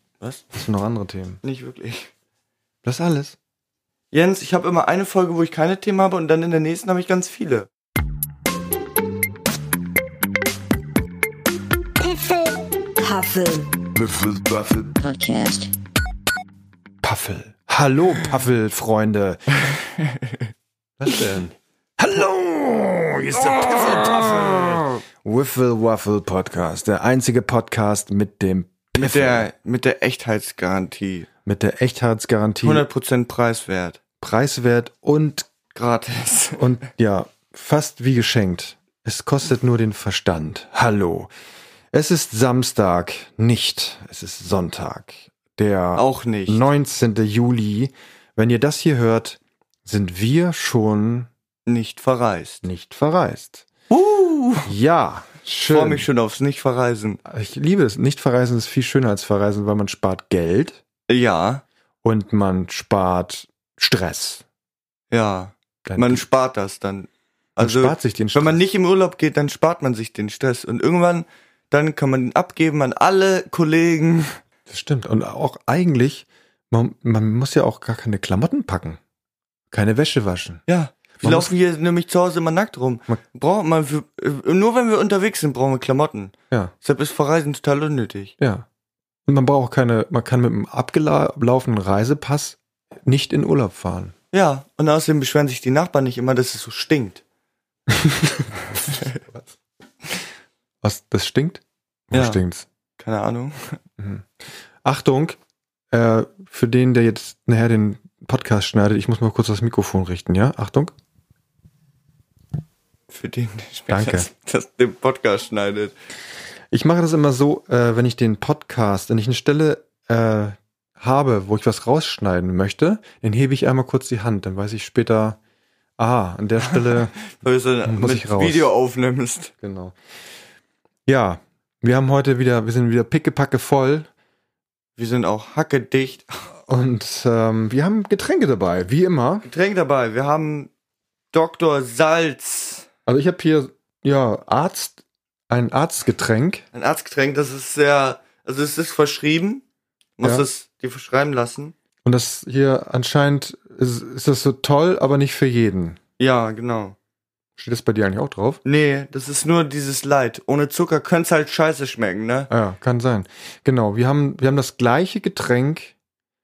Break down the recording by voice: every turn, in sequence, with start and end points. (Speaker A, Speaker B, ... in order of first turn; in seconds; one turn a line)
Speaker A: 0.2-0.5
Speaker B: 0.5-1.4
Speaker A: 1.4-2.1
Speaker B: 2.8-3.4
Speaker A: 4.1-7.7
Speaker C: 12.0-15.7
Speaker B: 17.0-19.4
Speaker B: 21.0-29.5
Speaker A: 29.0-31.3
Speaker B: 31.4-32.9
Speaker A: 32.6-34.0
Speaker B: 34.2-35.5
Speaker A: 35.7-36.8
Speaker B: 36.6-41.3
Speaker B: 41.9-51.3
Speaker A: 46.0-46.6
Speaker A: 51.7-52.6
Speaker B: 52.6-53.7
Speaker A: 53.9-54.7
Speaker B: 54.6-56.1
Speaker A: 55.7-57.2
Speaker B: 57.2-60.8
Speaker A: 61.1-61.6
Speaker B: 62.0-64.4
Speaker A: 65.1-74.4
Speaker B: 65.9-66.2
Speaker B: 67.6-68.6
Speaker B: 74.7-79.0
Speaker B: 79.7-80.6
Speaker A: 80.7-88.3
Speaker B: 81.2-81.5
Speaker B: 88.4-88.7
Speaker B: 89.3-94.1
Speaker A: 94.3-97.2
Speaker B: 98.7-99.5
Speaker A: 98.8-99.2
Speaker B: 100.8-102.7
Speaker A: 102.1-102.4
Speaker A: 103.0-103.8
Speaker B: 104.0-104.3
Speaker B: 104.8-105.4
Speaker B: 105.9-110.9
Speaker A: 113.1-115.9
Speaker B: 113.9-114.3
Speaker B: 116.7-125.4
Speaker B: 126.0-127.2
Speaker A: 126.7-129.5
Speaker B: 127.8-128.7
Speaker B: 129.6-129.9
Speaker B: 131.1-134.1
Speaker A: 135.0-136.3
Speaker B: 136.7-139.5
Speaker A: 139.4-140.7
Speaker A: 141.3-142.9
Speaker B: 143.1-146.6
Speaker A: 146.7-149.6
Speaker A: 150.2-151.8
Speaker B: 152.1-156.0
Speaker A: 156.2-157.0
Speaker B: 157.6-158.6
Speaker A: 158.7-162.5
Speaker B: 162.5-165.9